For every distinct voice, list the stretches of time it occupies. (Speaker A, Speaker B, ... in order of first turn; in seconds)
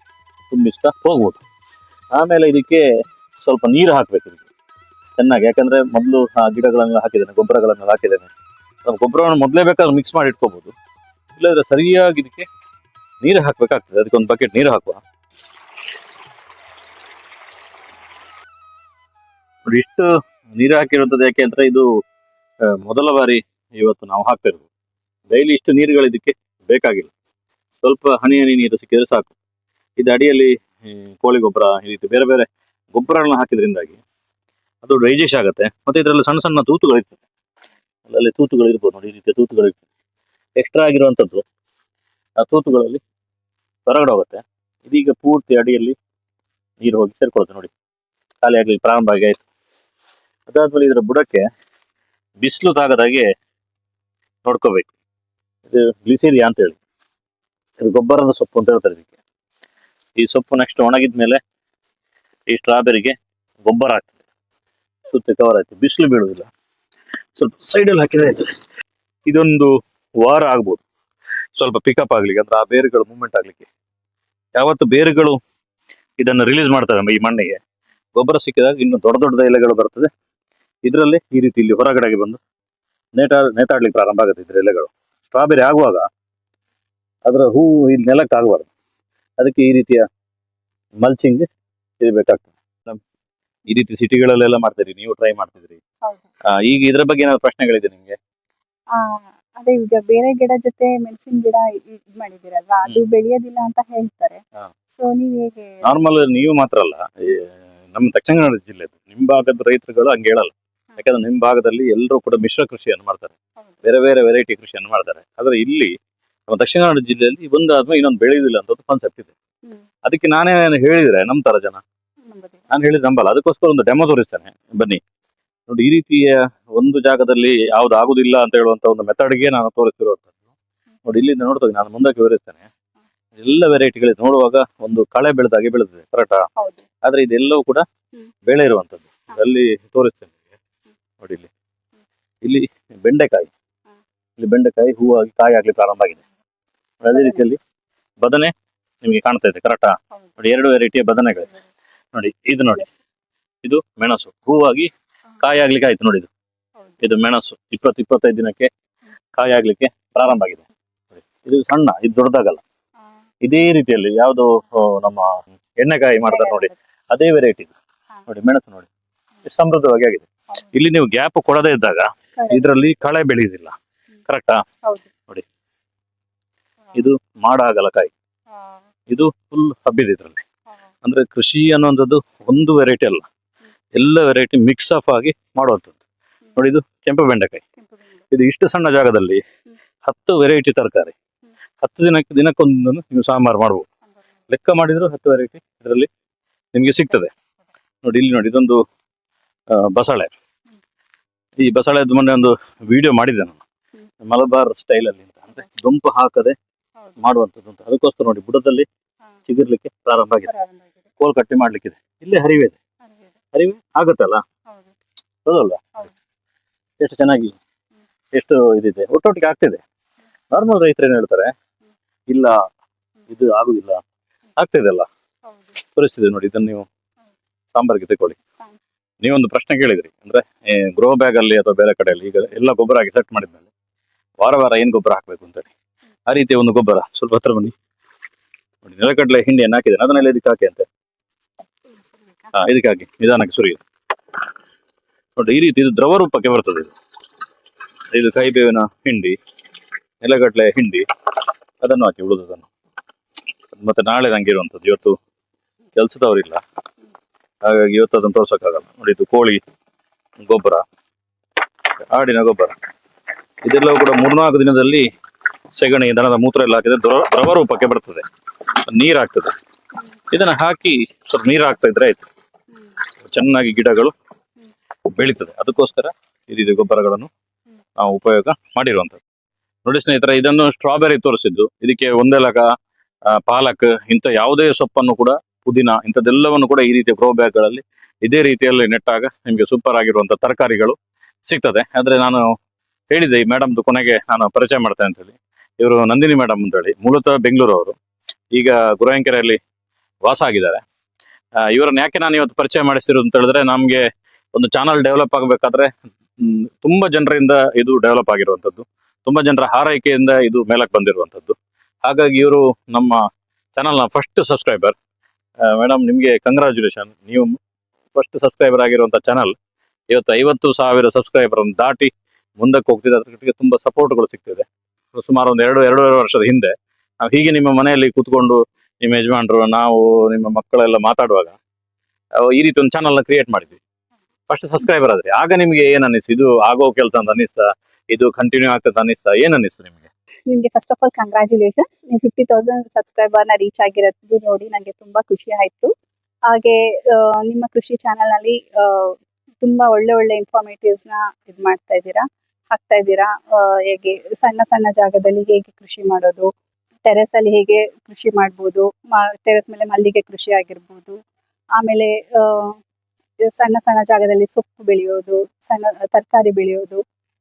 Speaker A: 0.5-1.4, 2.1-4.4, 5.2-8.3, 8.8-10.7, 11.3-12.5, 13.2-15.0, 19.6-21.9, 22.6-24.7, 25.3-27.1, 27.8-29.3, 30.0-34.0, 34.8-37.2, 38.1-39.8, 40.5-41.4, 42.4-43.0, 43.9-46.0, 46.8-47.7, 48.4-49.4, 50.5-51.5, 52.4-53.3, 54.4-54.9, 55.7-56.8, 57.8-59.1, 60.2-61.4, 62.5-64.2, 65.1-66.5, 67.4-68.5, 69.2-70.8, 71.6-73.7, 74.5-75.4, 76.2-77.6, 78.1-80.1, 80.8-82.4, 83.2-86.1, 87.2-88.7, 89.4-90.1, 91.0-91.5, 92.0-93.0, 93.7-95.8, 96.5-98.2, 105.8-115.9, 116.5-119.3, 120.0-121.8, 122.7-125.0, 125.7-130.3, 131.1-132.6, 133.4-136.5, 137.0-137.8, 138.4-140.3, 141.2-141.5, 142.4-143.5, 144.4-146.2, 147.0-147.6, 148.2-151.5, 152.1-152.9, 153.6-156.3, 157.0-158.7, 159.3-160.6, 161.4-162.6, 163.4-167.7, 168.2-168.9, 169.4-173.8, 174.3-174.6, 176.9-178.1, 179.1-180.4, 181.0-183.3, 183.9-186.0, 186.6-187.6, 188.3-189.4, 190.0-191.1, 191.8-193.8, 194.5-196.1, 196.7-197.3, 198.0-198.8, 199.7-200.3, 201.6-203.6, 204.2-206.6, 207.2-208.9, 209.5-210.5, 211.2-212.8, 213.5-214.4, 215.4-216.1, 217.0-217.6, 218.3-219.8, 220.5-221.5, 222.3-222.6, 223.3-224.0, 224.6-225.1, 225.8-226.9, 227.7-228.4, 229.2-233.7, 234.4-235.7, 236.3-237.7, 238.8-240.9, 242.5-243.8, 245.3-246.9, 248.1-249.4, 250.2-251.1, 251.8-252.7, 253.7-255.2, 255.9-256.6, 257.6-259.6, 260.4-260.8, 262.1-262.8, 263.6-265.1, 265.7-268.2, 268.8-269.5, 270.3-272.2, 273.2-274.1, 275.1-277.3, 278.0-279.2, 279.9-282.7, 283.3-292.5, 293.1-297.9, 298.5-299.6, 300.2-300.8, 301.6-313.2, 313.8-314.9, 315.6-317.6, 318.1-319.5, 320.1-331.6, 332.4-333.8, 334.5-340.1
Speaker B: 98.9-104.4, 104.9-105.8, 122.2-122.6, 136.6-136.8, 166.3-166.7, 172.4-172.7, 174.8-175.1, 210.5-210.8, 340.5-345.9, 346.5-356.5, 357.1-361.2, 361.8-362.8, 363.4-367.0